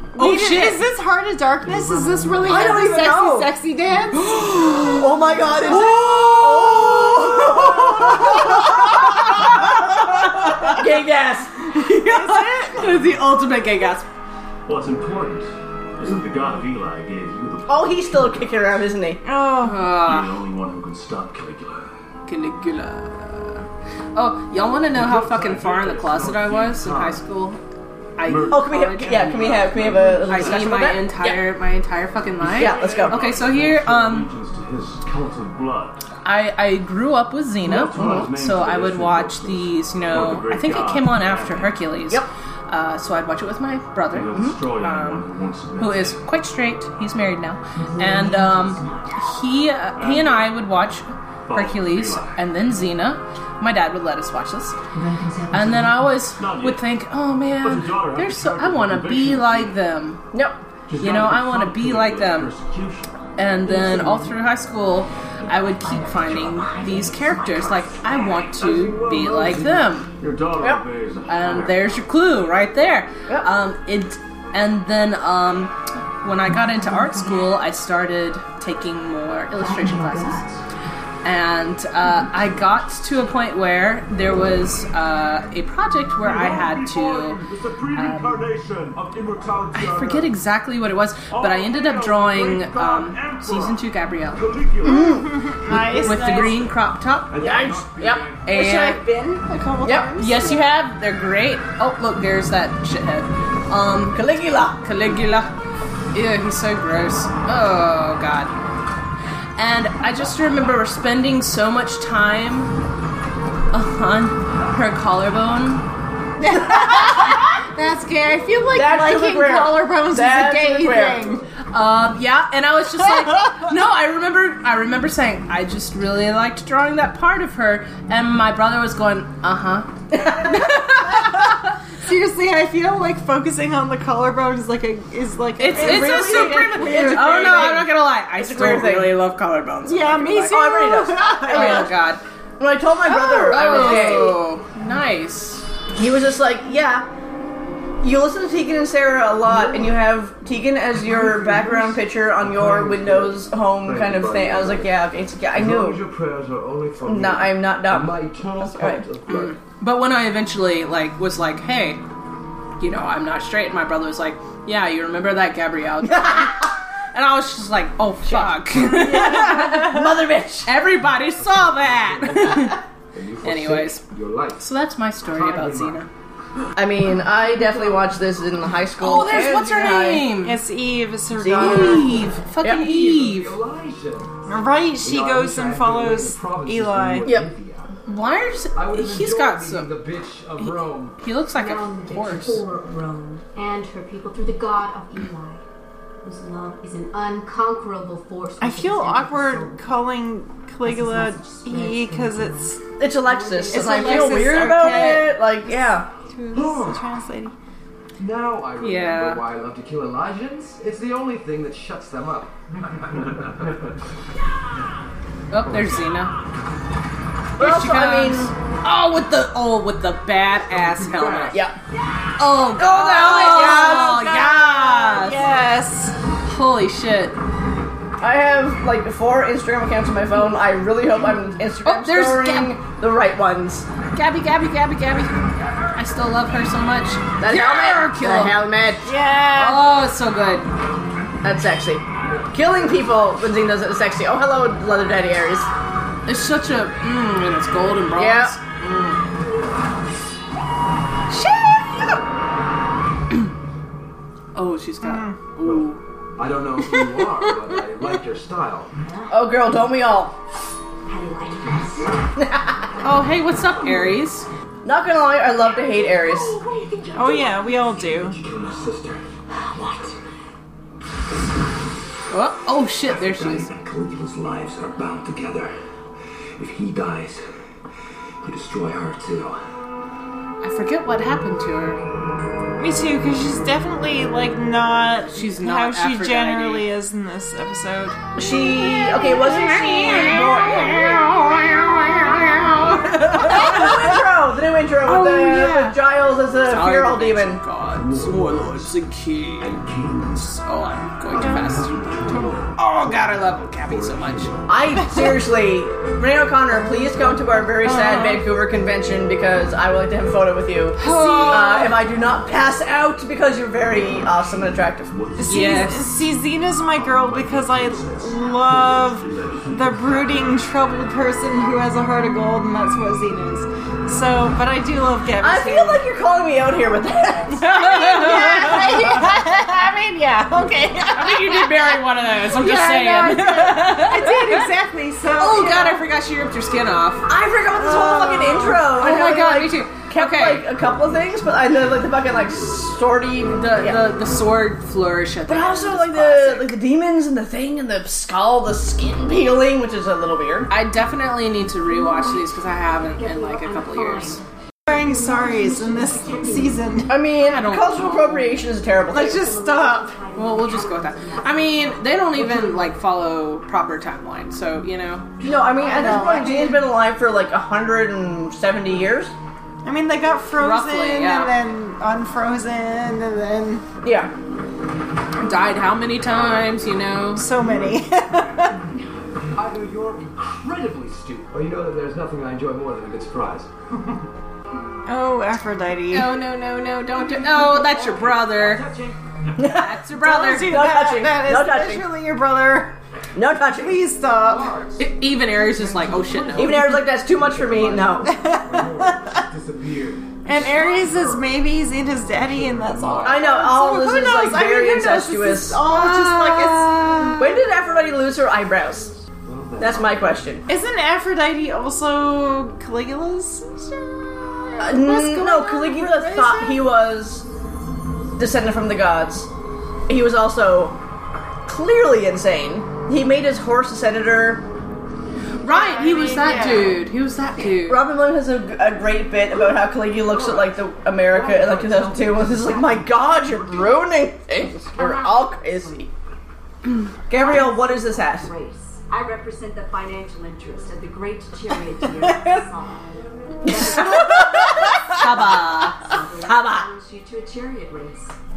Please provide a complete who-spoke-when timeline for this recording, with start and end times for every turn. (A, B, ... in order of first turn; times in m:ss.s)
0:00.1-0:04.4 A
0:00.2-0:00.8 B
0:02.4-0:03.5 C
0:04.3-0:09.8 C
0:05.6-0:06.7 B
0:06.1-0:08.0 D
0:08.8-0:09.4 B
0:10.3-0:10.8 B
0:10.7-0:12.3 C
0:11.8-0:12.9 A
0:11.9-0:14.1 B
0:14.7-0:18.7 D
0:17.7-0:19.2 C
0:19.2-0:19.8 A
0:19.6-0:20.4 B
0:20.0-0:21.9 D
0:22.3-0:27.6 B
0:24.9-0:27.2 D
0:28.2-0:34.3 B
0:28.2-0:30.8 D
0:28.5-0:31.4 C
0:32.4-0:36.0 D
0:32.5-0:33.2 C
0:36.2-0:45.3 B
0:37.7-0:41.8 D
0:37.9-0:38.3 C
0:44.1-0:46.2 D
0:45.8-0:54.8 B
0:47.8-0:49.4 E
0:50.0-0:50.5 D
0:51.5-0:52.4 D
0:54.9-0:56.1 E
0:55.5-1:00.2 B
0:56.4-0:56.8 D
0:57.6-0:59.7 D
1:00.3-1:00.6 C
1:00.9-1:04.2 D
1:01.0-1:02.5 B
1:03.4-1:10.1 B
1:03.7-1:04.2 E
1:05.4-1:08.4 E
1:08.5-1:11.8 D
1:11.3-1:20.4 B
1:16.5-1:17.6 E
1:19.5-1:20.6 E
1:21.2-1:27.4 B
1:26.2-1:30.3 D
1:27.9-1:28.4 B
1:29.7-1:34.4 B
1:31.3-1:33.8 D
1:34.3-1:36.7 D
1:34.8-1:36.6 A
1:34.8-1:35.2 C
1:35.9-1:37.4 B
1:37.3-1:38.5 D
1:37.4-1:39.0 C
1:38.5-1:39.0 B
1:38.5-1:40.7 A
1:39.8-1:40.2 C
1:40.2-1:45.5 B
1:44.1-1:44.8 C
1:46.1-1:48.5 B
1:49.6-1:52.8 B
1:53.7-1:55.8 B
1:56.4-2:01.4 A
1:58.7-2:01.3 C
2:01.7-2:11.7 B
2:10.1-2:10.7 C
2:12.0-2:17.9 A
2:15.6-2:22.2 B
2:15.8-2:19.1 C
2:19.9-2:21.9 A
2:20.5-2:21.9 C
2:22.6-2:24.4 C
2:23.1-2:24.0 A
2:23.4-2:25.7 B
2:25.9-2:27.1 C
2:28.0-2:36.0 C
2:31.0-2:34.9 D
2:35.5-2:39.6 D
2:37.0-2:39.0 C
2:39.3-2:42.0 B
2:42.8-2:52.8 B
2:46.0-2:46.6 C
2:48.2-2:50.8 C
2:48.9-2:49.9 A
2:51.5-2:54.7 D
2:53.4-2:54.0 B
2:54.6-2:56.1 B
2:55.3-2:56.0 D
2:56.8-3:00.3 C
2:59.0-3:00.6 B
3:00.4-3:02.3 A
3:01.4-3:02.9 C
3:01.6-3:03.6 B
3:02.7-3:04.3 D
3:04.5-3:07.3 A
3:05.0-3:07.9 D
3:08.1-3:09.9 B
3:08.8-3:11.2 D
3:11.2-3:12.6 B
3:11.5-3:15.6 E
3:16.2-3:19.8 E
3:18.6-3:22.8 A
3:20.8-3:24.8 E
3:23.0-3:26.1 C
3:23.7-3:25.5 A
3:24.8-3:25.2 B
3:26.3-3:27.5 A
3:26.5-3:27.1 D
3:28.2-3:34.0 D
3:28.8-3:29.4 B
3:35.5-3:36.3 B
3:37.6-3:38.5 C
3:37.6-3:41.6 B
3:40.8-3:41.6 D
3:42.4-3:45.5 B
3:42.8-3:44.3 C
3:43.2-3:46.2 A
3:46.4-3:47.4 B
3:48.2-3:53.9 C
3:51.8-3:52.8 B
3:54.1-3:58.6 B
3:57.4-3:59.1 C
3:59.0-4:00.0 A
3:59.6-4:00.7 B
4:01.4-4:05.7 C
4:06.3-4:09.2 B
4:08.2-4:08.6 C
4:14.6-4:16.0 B
4:15.0-4:15.4 A
4:15.6-4:18.9 D
4:16.9-4:17.5 A
4:19.0-4:19.5 E
4:19.3-4:20.3 C
4:21.1-4:24.1 E
4:22.4-4:22.8 C
4:23.0-4:24.5 B
4:24.8-4:26.6 C
4:25.6-4:27.8 E
4:27.2-4:28.4 A
4:28.0-4:29.2 D
4:29.5-4:30.2 E
4:32.3-4:33.7 B
4:33.1-4:35.7 D
4:36.6-4:37.4 D
4:38.4-4:39.6 D
4:40.6-4:42.0 B
4:42.8-4:48.3 A
4:45.3-4:46.9 B
4:48.4-4:51.4 C
4:49.4-4:54.2 B
4:53.4-4:57.6 C
4:53.5-4:53.9 A
4:55.0-4:55.9 B
4:55.3-4:55.9 A
4:56.7-4:59.8 B
4:57.9-4:59.0 D
4:59.6-5:00.7 D
5:00.6-5:04.5 B
5:01.3-5:04.9 D
5:01.4-5:01.7 A
5:04.7-5:15.2 C
5:05.0-5:05.4 A
5:07.7-5:08.5 A
5:11.0-5:12.0 A
5:11.0-5:11.9 B
5:14.2-5:16.0 D
5:15.4-5:26.1 A
5:15.4-5:16.2 B
5:16.8-5:20.5 D
5:25.4-5:29.2 C
5:27.5-5:29.3 B
5:27.7-5:36.0 A
5:31.2-5:34.7 B
5:35.4-5:37.3 B
5:37.3-5:44.1 C
5:37.7-5:38.9 A
5:38.8-5:40.7 B
5:43.6-5:46.7 B
5:45.5-5:50.7 C
5:50.7-5:54.4 B
5:51.8-5:52.5 E
5:53.1-5:57.1 E
5:54.9-5:57.2 A
5:57.0-5:59.5 C
5:57.3-5:58.6 B
5:59.1-6:00.1 A
5:59.2-6:02.6 E
6:00.4-6:05.3 B
6:02.4-6:02.8 C
6:05.4-6:06.3 E
6:05.4-6:09.3 C
6:05.8-6:06.9 A
6:09.8-6:13.8 A
6:10.6-6:11.6 B
6:14.0-6:14.3 C
6:15.4-6:17.4 B
6:17.4-6:18.8 A
6:19.5-6:23.7 D
6:25.1-6:26.4 A
6:26.1-6:28.8 B
6:27.5-6:29.6 D
6:29.6-6:30.0 C
6:29.7-6:30.9 B
6:30.2-6:33.0 A
6:30.6-6:32.1 C
6:33.4-6:34.0 C
6:33.7-6:34.7 A
6:34.5-6:35.1 D
6:35.0-6:36.9 B
6:35.8-6:41.5 D
6:36.6-6:38.3 C
6:38.2-6:39.5 A
6:40.4-6:47.4 A
6:42.3-6:43.5 D
6:43.2-6:45.9 C
6:45.9-6:47.5 B
6:47.4-6:49.1 C
6:49.4-6:50.6 D
6:49.8-6:50.6 C
6:50.7-6:56.8 A
6:54.8-6:57.5 C
6:58.4-6:59.5 C
7:00.1-7:01.0 C
7:01.7-7:04.6 C
7:05.6-7:08.1 B
7:05.6-7:07.1 A
7:07.6-7:16.1 C
7:10.3-7:10.7 E
7:11.3-7:14.0 E
7:14.8-7:16.1 E
7:17.3-7:18.5 C
7:17.3-7:25.2 E
7:23.6-7:25.5 C
7:25.1-7:26.0 B
7:26.0-7:28.4 E
7:26.4-7:26.9 C